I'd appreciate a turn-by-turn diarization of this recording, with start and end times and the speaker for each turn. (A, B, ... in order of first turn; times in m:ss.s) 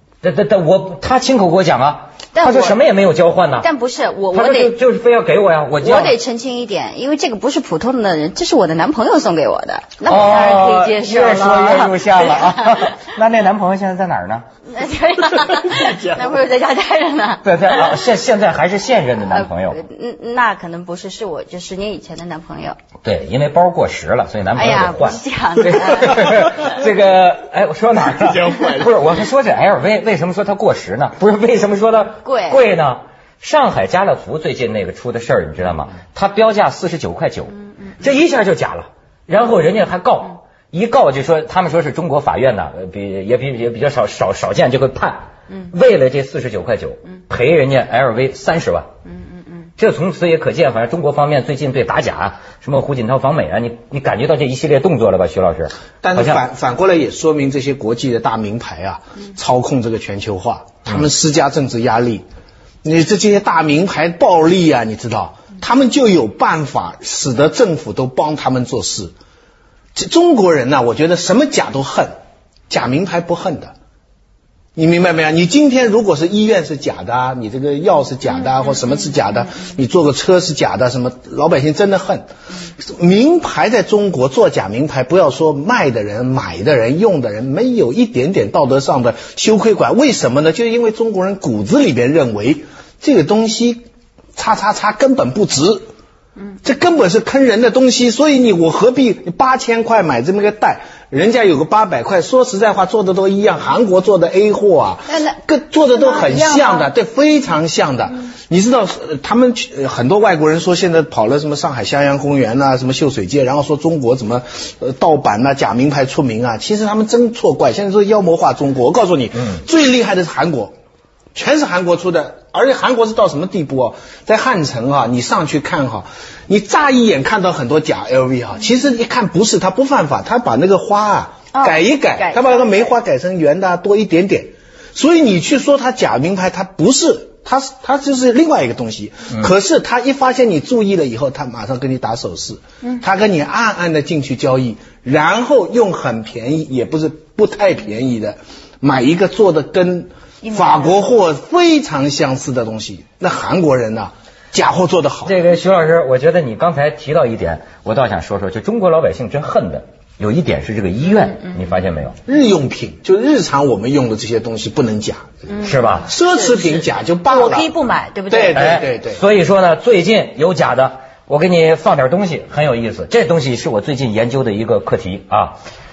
0:00.2-0:03.7 A
0:02.4-0:02.8 B
0:03.6-0:04.7 B
0:04.3-0:06.2 A
0:05.8-0:12.9 B
0:10.1-0:14.4 A
0:14.7-0:17.5 B
0:17.4-0:19.8 A
0:19.3-0:22.8 B
0:23.0-0:48.9 A
0:24.6-0:26.6 B
0:28.1-0:29.0 C
0:32.2-0:32.6 B
0:49.8-0:56.4 A
0:56.0-1:02.2 C
1:02.8-1:09.1 C
1:10.0-1:12.2 C
1:12.7-1:13.7 C
1:14.8-1:22.3 C
1:22.8-1:35.9 C
1:36.6-2:00.8 C
1:45.1-1:45.4 B
1:45.9-1:46.9 B
2:01.3-2:35.4 C
2:11.5-2:12.9 B
2:30.4-2:31.0 B
2:35.3-2:42.2 A
2:42.2-2:45.5 C
2:45.5-2:48.8 B
2:45.6-2:46.1 A
2:46.0-2:47.8 C
2:48.3-2:49.2 C
2:48.6-2:55.6 A